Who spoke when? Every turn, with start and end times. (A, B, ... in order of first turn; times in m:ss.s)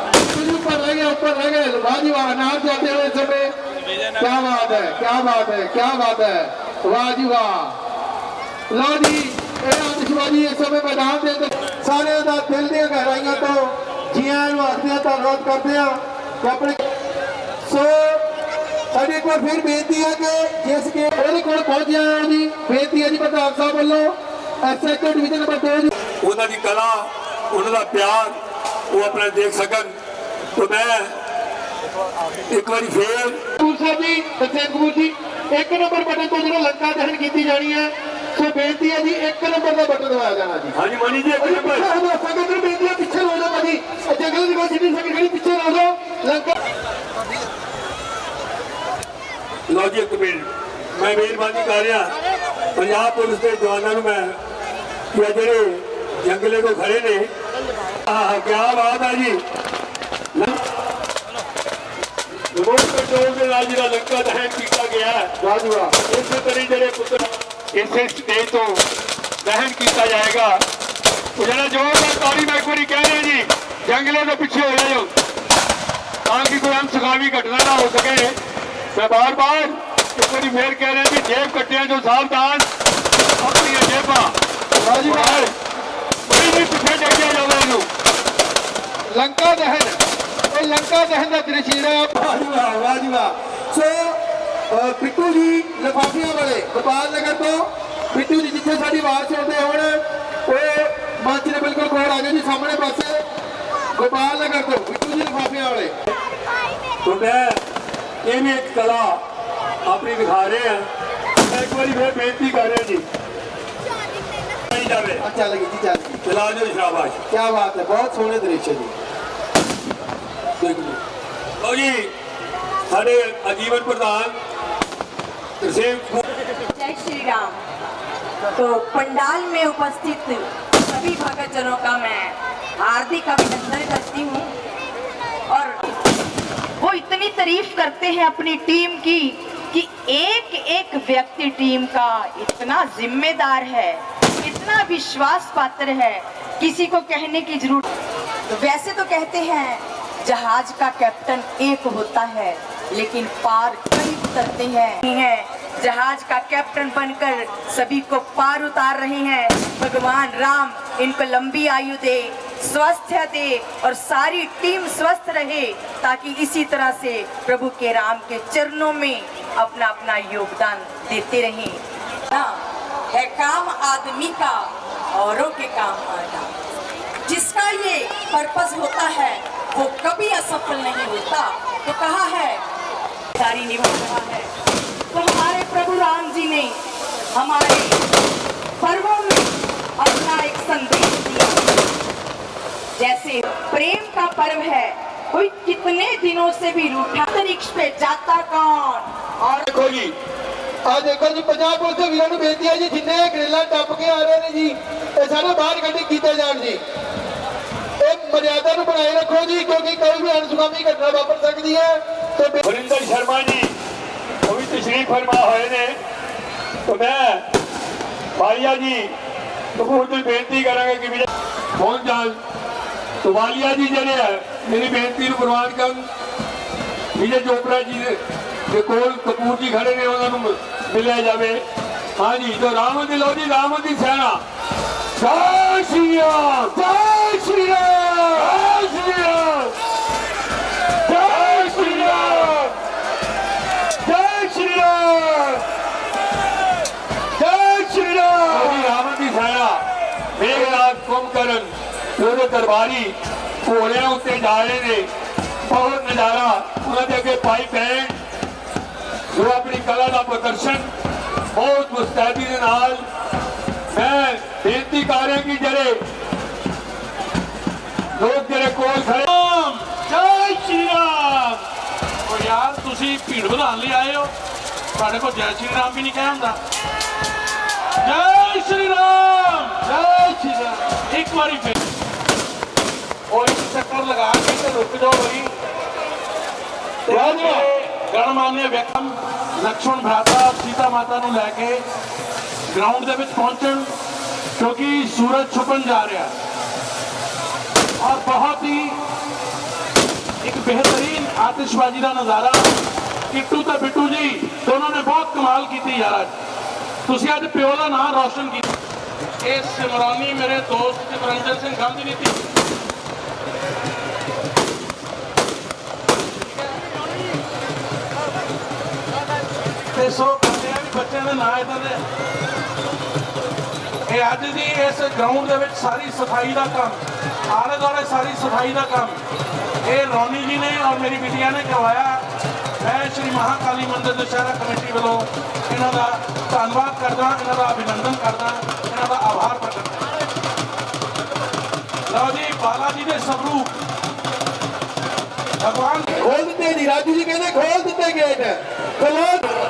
0:00.2-0:03.5 A
0:04.2-0:07.8 A
0:08.7-0:16.8 A
0:17.6-0:18.3 A
0:18.9-0:25.9 A
0:26.2-0:28.4 B
0:28.9-0:30.0 B
0:30.6-0:31.2 B
0:32.5-0:33.4 B
0:33.6-0:40.8 A
0:40.7-0:41.9 B
0:41.4-0:46.5 A
0:49.7-0:52.2 B
0:52.8-0:54.4 B
0:55.1-0:57.3 B
0:58.1-0:59.4 B
1:02.5-1:08.8 B
1:05.6-1:05.9 A
1:09.4-1:10.6 B
1:11.4-1:15.1 B
1:16.3-1:18.4 B
1:18.9-1:22.7 B
1:23.4-1:24.4 B
1:24.8-1:25.5 A
1:25.0-1:25.5 B
1:26.3-1:27.9 B
1:29.1-1:30.0 A
1:30.5-1:34.2 A
1:34.7-1:43.2 A
1:44.0-1:45.9 A
1:47.0-1:47.6 B
1:48.2-1:49.2 B
1:49.9-1:50.9 B
1:51.4-1:53.0 B
1:54.7-1:55.2 B
1:55.2-1:56.2 A
1:56.2-1:57.2 B
1:57.3-1:59.0 A
2:00.6-2:01.0 B
2:01.6-2:02.1 B
2:02.9-2:04.4 B
2:05.6-2:06.2 B
2:06.7-2:07.6 C
2:08.5-2:14.5 C
2:15.5-2:15.8 C
2:16.8-2:27.9 C
2:28.5-2:56.5 C
2:57.2-3:02.6 C
3:03.4-3:04.5 C
3:05.1-3:06.8 C
3:07.3-3:08.0 C
3:08.8-3:11.7 C
3:13.0-3:19.7 C
3:19.7-3:20.1 B
3:20.9-3:26.8 A
3:28.0-3:32.6 A
3:32.6-3:33.8 B
3:34.5-3:36.0 B
3:36.9-3:37.5 B
3:38.4-3:39.1 B
3:39.8-3:42.4 B
3:43.2-3:46.1 B
3:47.2-3:51.6 B
3:52.2-3:54.4 B
3:55.2-3:56.9 B
3:56.9-3:58.0 A
3:58.2-3:59.8 B
4:01.1-4:02.7 B
4:07.5-4:08.7 A
4:08.5-4:09.8 B
4:10.4-4:15.1 B
4:15.7-4:18.2 B
4:19.3-4:20.9 B
4:21.5-4:23.0 B
4:23.9-4:26.0 B
4:28.1-4:29.3 B
4:29.3-4:31.6 D
4:30.9-4:31.4 B
4:32.2-4:34.3 D
4:35.0-4:36.6 D
4:38.0-4:41.8 D
4:43.3-4:45.5 D
4:47.1-4:47.7 A
4:47.1-4:51.8 D
4:52.7-4:53.9 D
4:54.6-4:56.3 D
4:58.0-4:59.0 D
5:00.4-5:02.7 D
5:03.3-5:06.4 D
5:07.1-5:08.6 D
5:09.4-5:12.4 D
5:20.0-5:22.0 D
5:24.0-5:29.2 D
5:29.8-5:32.2 D
5:32.8-5:40.1 D
5:42.1-5:43.7 D
5:45.6-5:46.2 D
5:46.2-5:49.5 A